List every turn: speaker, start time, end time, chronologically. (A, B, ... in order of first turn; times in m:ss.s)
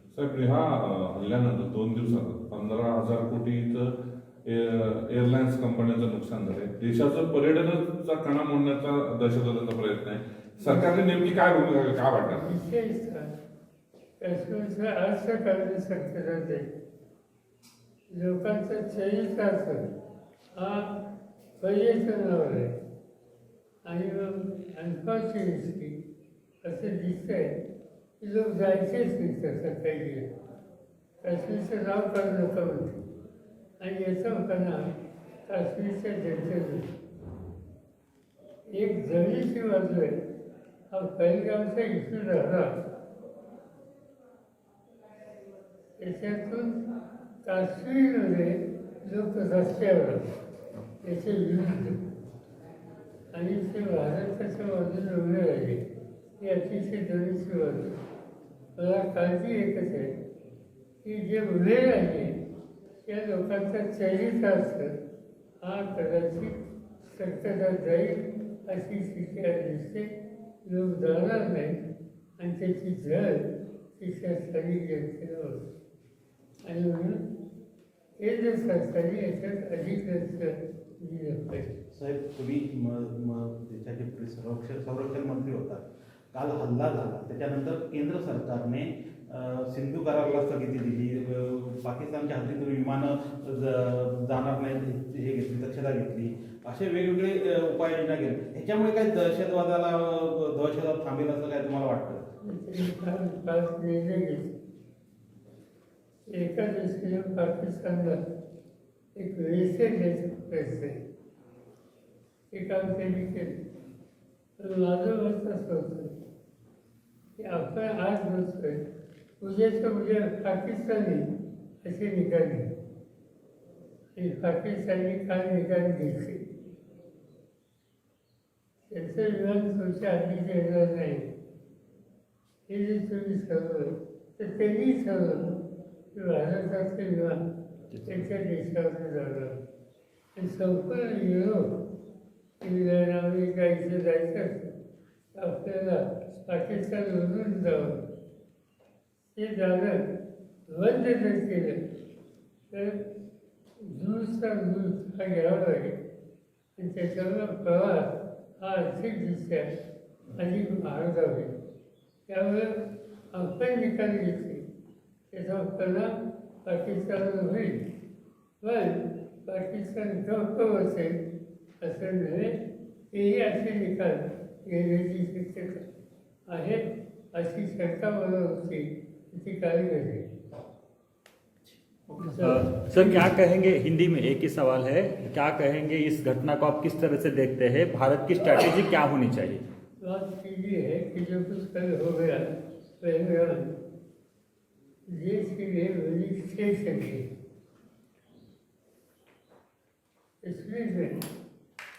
0:00.1-0:12.4 A
0:12.3-0:13.3 B
0:14.2-0:16.7 B
0:18.1-0:19.8 B
0:20.6-0:20.9 B
0:21.6-0:22.7 B
0:23.8-0:26.0 B
0:26.6-0:27.5 B
0:28.2-0:30.3 B
0:31.2-0:33.0 B
0:33.8-0:34.8 B
0:35.5-0:36.9 B
0:38.7-0:40.2 B
0:40.9-0:42.7 B
0:46.0-0:46.8 B
0:47.4-0:50.2 B
0:51.0-0:52.0 B
0:53.3-0:55.8 B
0:56.4-0:58.0 B
0:58.8-1:00.1 B
1:01.0-1:02.4 B
1:03.0-1:04.9 B
1:05.6-1:10.1 B
1:10.6-1:11.8 B
1:12.4-1:13.4 B
1:13.9-1:15.6 B
1:16.7-1:17.2 B
1:18.2-1:21.7 B
1:21.9-1:42.2 C
1:42.4-1:44.5 B
1:46.3-1:48.2 B
1:49.2-1:50.9 B
1:52.5-1:53.6 B
1:54.6-1:56.1 B
1:57.4-1:58.8 B
1:59.4-2:01.2 B
2:01.8-2:02.7 B
2:04.2-2:06.4 B
2:08.9-2:11.3 B
2:12.7-2:15.5 B
2:16.1-2:17.4 B
2:17.9-2:18.2 D
2:18.1-2:19.5 B
2:20.4-2:21.7 B
2:22.6-2:24.6 B
2:25.3-2:27.9 B
2:29.3-2:30.0 B
2:30.7-2:31.8 B
2:32.7-2:33.0 B
2:33.9-2:36.0 B
2:36.8-2:38.1 B
2:38.6-2:39.7 B
2:40.4-2:41.5 B
2:42.3-2:42.8 B
2:43.3-2:44.6 B
2:45.3-2:46.1 B
2:46.6-2:47.8 B
2:48.6-2:51.1 B
2:51.8-2:52.6 B
2:53.1-2:55.8 B
2:56.5-2:56.8 B
2:57.3-3:00.2 B
3:02.2-3:02.6 B
3:02.2-3:09.6 D
3:10.0-3:12.4 B
3:13.0-3:13.7 B
3:15.1-3:17.2 B
3:20.4-3:21.2 B